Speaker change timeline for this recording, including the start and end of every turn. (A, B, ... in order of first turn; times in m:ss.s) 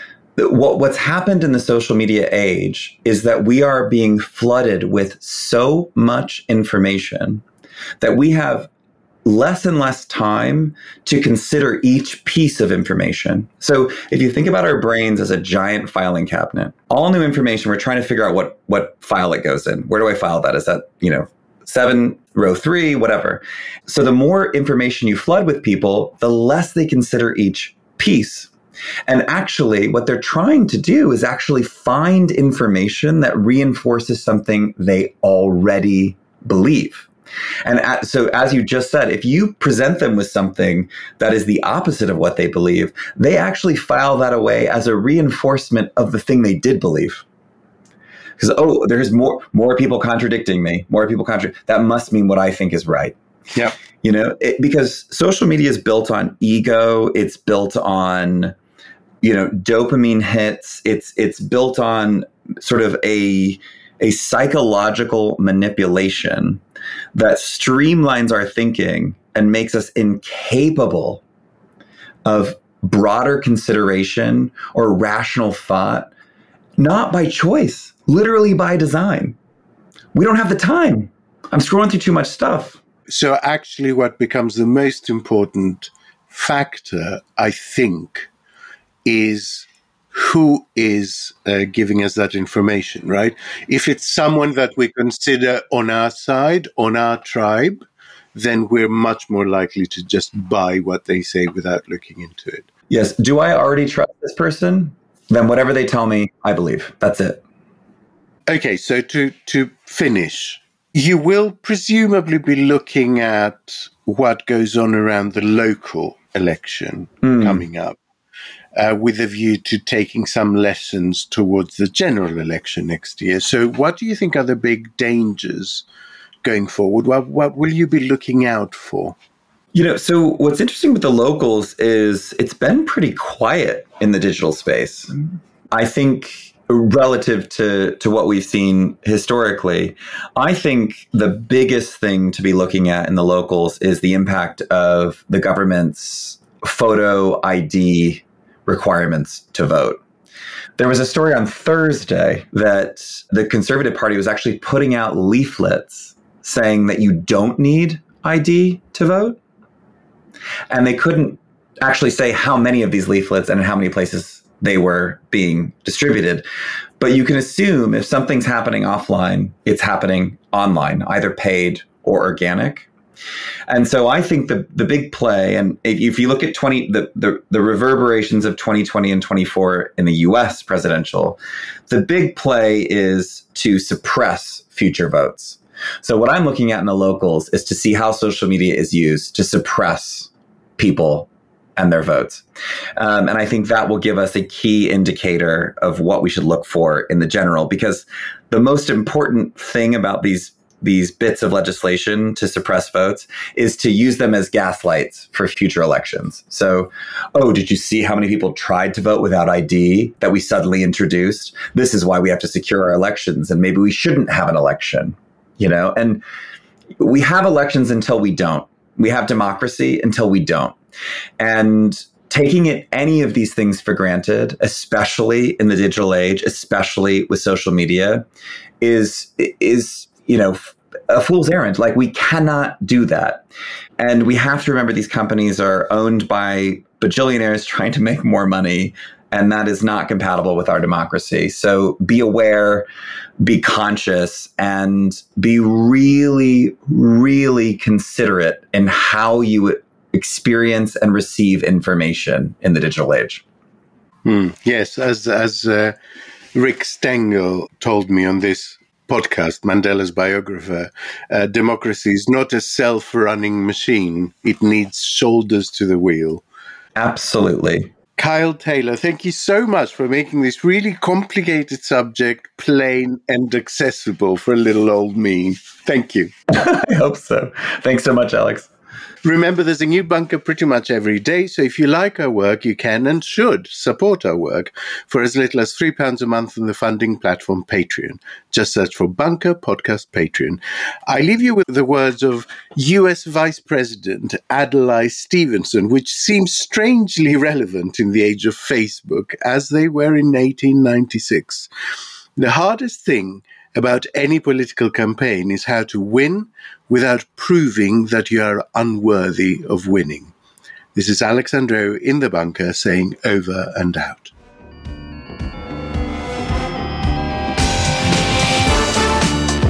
0:00.4-0:07.4 A
0:08.0-0:08.7 A
0:09.2-0:28.5 A
0:29.1-0:37.1 A
0:37.6-0:47.2 A
0:48.4-0:53.1 A
0:54.0-0:58.5 A
0:59.2-1:06.6 A
1:07.1-1:11.2 A
1:12.2-1:16.1 A
1:16.8-1:19.4 A
1:20.1-1:22.8 A
1:23.1-1:28.3 B
1:29.0-1:37.8 B
1:38.3-1:42.7 B
1:42.9-1:47.4 A
1:48.5-1:58.0 B
1:57.2-1:57.6 A
1:58.8-2:05.8 B
2:06.4-2:09.2 B
2:09.7-2:15.1 A
2:15.7-2:30.0 A
2:30.8-2:39.4 A
2:40.7-2:46.4 A
2:47.0-2:52.9 A
2:53.7-3:12.4 A
3:13.0-3:36.2 A
3:37.0-3:40.8 A
3:41.4-3:48.2 A
3:48.8-3:53.4 A
3:54.0-4:02.9 A
4:03.4-4:13.4 A
4:14.2-4:16.0 B
4:16.5-4:26.4 B
4:27.0-4:27.9 A
4:28.2-4:36.3 B
4:36.5-4:38.7 A
4:39.2-5:01.7 B
5:02.4-5:10.3 B
5:10.9-5:14.3 B